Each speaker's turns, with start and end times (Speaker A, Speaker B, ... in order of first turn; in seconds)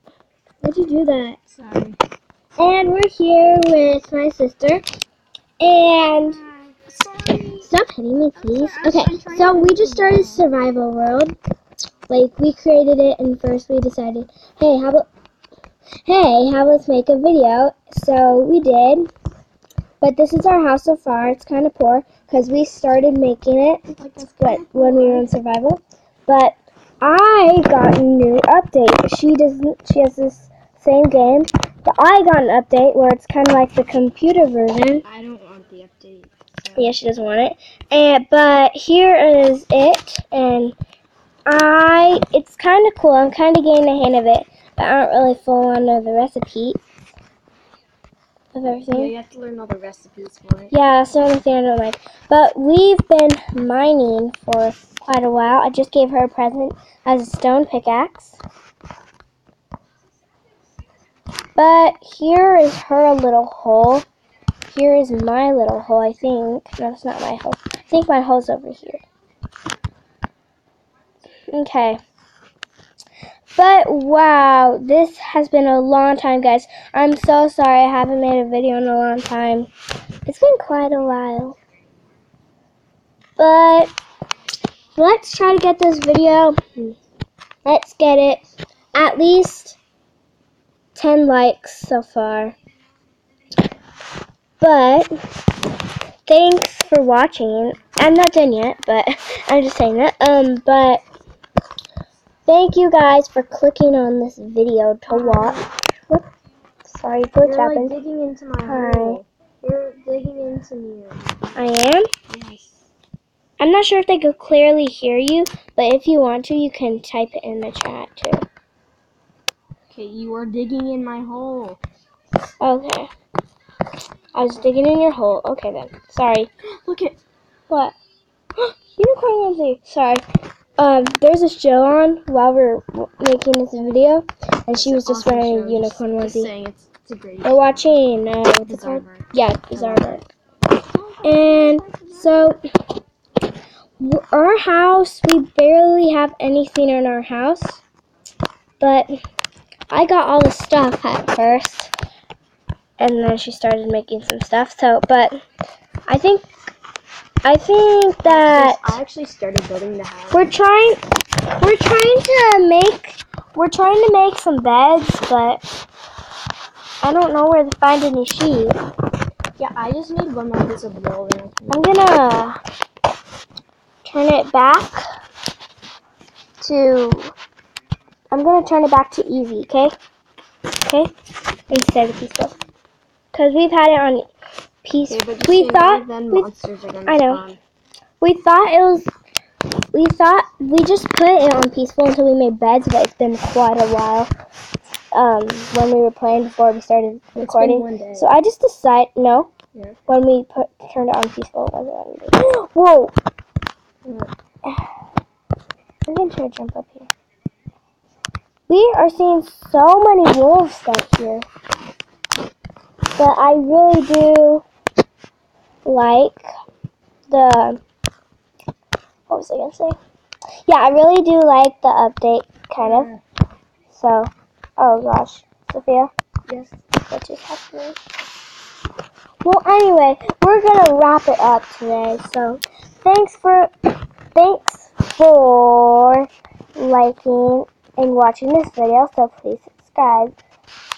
Speaker A: 0.6-1.4, 2.6-4.8, 5.6-6.4, 7.6-11.3, 12.1-15.1, 16.0-19.1, 20.0-35.0, 36.8-40.8, 41.5-46.8, 48.5-49.1, 50.7-58.4, 61.5-64.0, 64.7-69.0, 71.5-72.0, 73.5-79.7, 80.2-81.6, 83.4-83.9, 85.0-87.0, 87.6-88.4, 88.9-89.8, 90.9-92.5, 94.6-95.1, 96.2-101.0, 102.5-106.2, 106.8-108.0, 108.6-109.2, 111.5-112.1, 113.6-118.5, 122.6-123.1, 124.3-126.5, 127.7-127.9, 128.6-130.2, 130.8-136.5, 137.4-140.2, 141.2-142.6, 144.0-147.8, 148.8-149.1, 149.9-151.9, 153.0-155.4, 156.1-156.5, 157.4-159.0, 160.3-165.6, 167.0-168.8, 171.7-172.6, 174.0-175.0, 176.6-177.3, 178.3-179.9, 180.7-181.1, 181.7-182.5, 183.3-184.3, 184.8-186.5, 187.1-187.4, 188.2-189.1, 189.9-194.3, 195.1-199.5, 200.1-203.1, 206.1-207.1, 208.7-211.4, 213.1-214.6, 215.8-216.5, 217.3-217.8, 219.3-220.0, 220.7-223.1, 223.9-226.1, 227.1-228.0, 229.4-233.7, 234.3-240.3
Speaker B: 1.5-2.0, 6.8-7.7, 8.4-10.4, 24.0-25.3, 35.0-37.0, 48.9-50.7, 105.1-105.6, 107.4-111.6, 112.3-112.8, 119.9-121.8, 126.8-127.2, 134.7-138.0, 138.7-140.2, 140.8-142.5, 158.2-160.5, 169.6-171.8, 185.1-187.6, 197.4-198.3, 204.0-204.3, 222.8-223.2, 226.5-226.8